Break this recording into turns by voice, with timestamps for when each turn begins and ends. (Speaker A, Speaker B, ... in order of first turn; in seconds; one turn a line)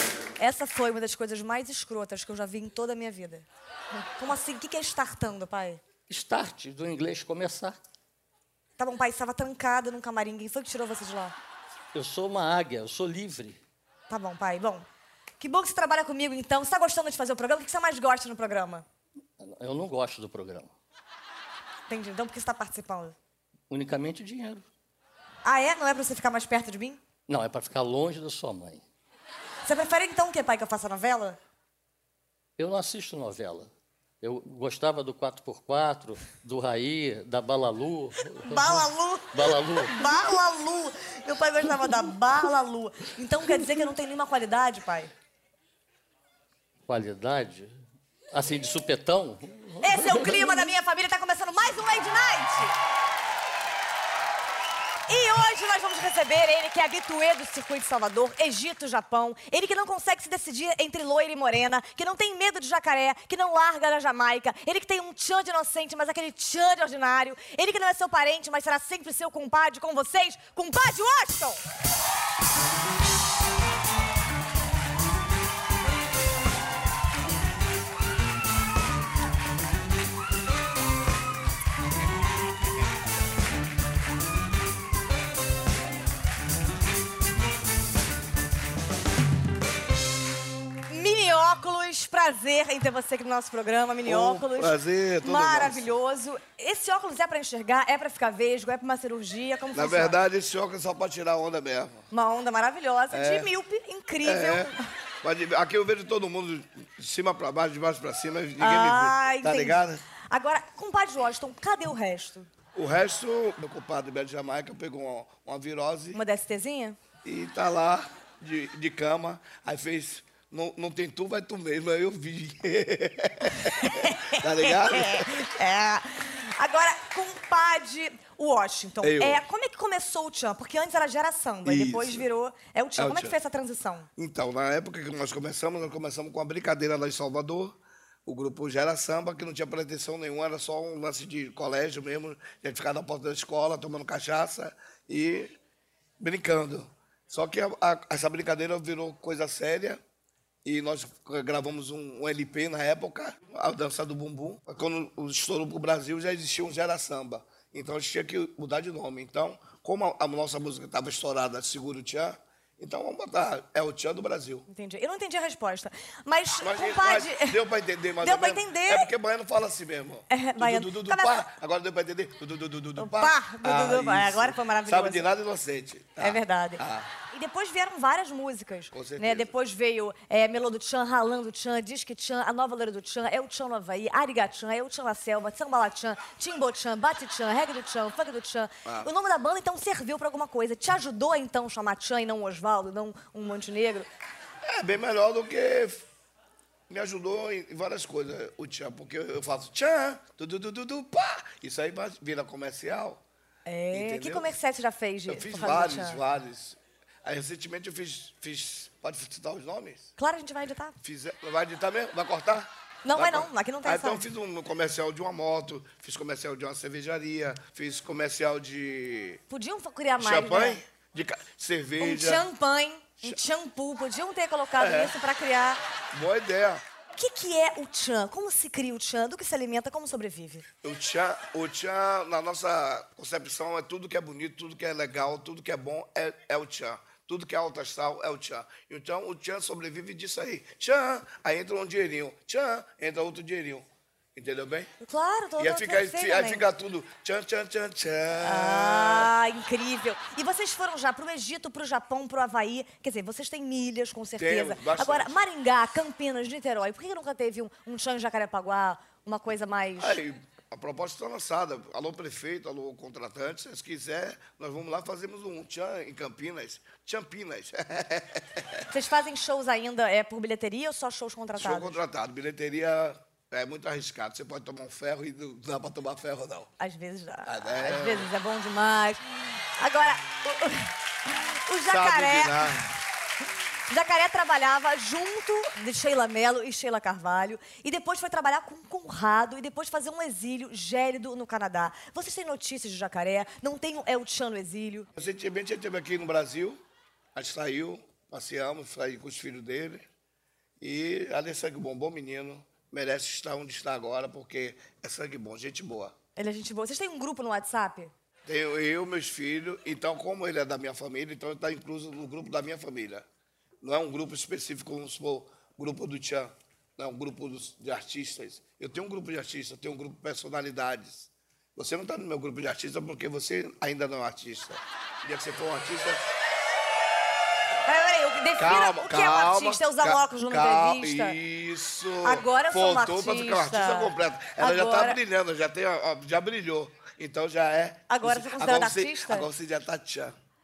Speaker A: 0.4-3.5
Speaker A: 4.2-5.8
Speaker B: 6.1-7.8
Speaker A: 8.8-11.3
Speaker B: 11.9-13.6
Speaker A: 14.1-14.9
Speaker A: 15.4-18.9
Speaker B: 19.4-20.7
Speaker A: 21.9-23.1
Speaker B: 23.7-24.6
Speaker A: 25.4-27.0
Speaker B: 27.3-28.8
Speaker A: 29.6-31.4
Speaker B: 32.6-40.1
Speaker A: 38.4-45.1
Speaker B: 46.9-47.7
Speaker B: 48.3-50.7
Speaker A: 49.8-52.7
Speaker A: 55.1-71.6
Speaker A: 90.9-100.2
Speaker C: 94.0-95.9
Speaker C: 99.7-102.0
Speaker A: 102.1-104.7
Speaker C: 103.1-103.5
Speaker C: 104.2-110.0
Speaker A: 108.6-112.5
Speaker C: 112.7-116.2
Speaker A: 116.1-117.0
Speaker C: 117.2-125.4
Speaker A: 123.5-134.1
Speaker C: 129.0-129.4
Speaker C: 131.6-132.2
Speaker C: 133.0-133.4
Speaker C: 134.2-145.6
Speaker C: 146.2-150.0
Speaker C: 150.7-164.7
Speaker A: 164.7-167.6
Speaker C: 166.6-177.1
Speaker A: 168.2-169.1
Speaker A: 170.3-171.4
Speaker A: 173.0-175.3
Speaker A: 176.2-194.1
Speaker C: 178.9-179.5
Speaker C: 188.8-189.1
Speaker C: 194.6-196.1
Speaker C: 196.9-203.2
Speaker A: 203.7-206.2
Speaker C: 203.9-204.5
Speaker C: 205.3-210.1
Speaker A: 210.2-211.0
Speaker C: 211.0-219.4
Speaker A: 213.1-214.2
Speaker A: 219.5-220.8
Speaker C: 220.2-222.5
Speaker A: 222.0-225.8
Speaker C: 224.8-225.2
Speaker C: 226.1-226.8
Speaker A: 227.2-230.7
Speaker C: 230.8-244.9
Speaker A: 245.0-246.7
Speaker C: 245.6-249.3
Speaker A: 248.4-260.2
Speaker C: 254.4-255.3
Speaker C: 260.0-268.9
Speaker A: 268.9-272.0
Speaker C: 271.6-276.7
Speaker A: 276.8-279.2
Speaker C: 277.4-278.3
Speaker A: 279.8-282.7
Speaker C: 281.9-282.9
Speaker A: 283.9-295.1
Speaker C: 295.2-296.8
Speaker C: 297.4-300.1
Speaker C: 300.8-306.1
Speaker A: 306.4-308.1
Speaker C: 308.4-313.2
Speaker C: 313.8-326.3
Speaker A: 327.9-331.4
Speaker C: 328.6-340.3
Speaker A: 332.2-335.2
Speaker A: 338.1-339.5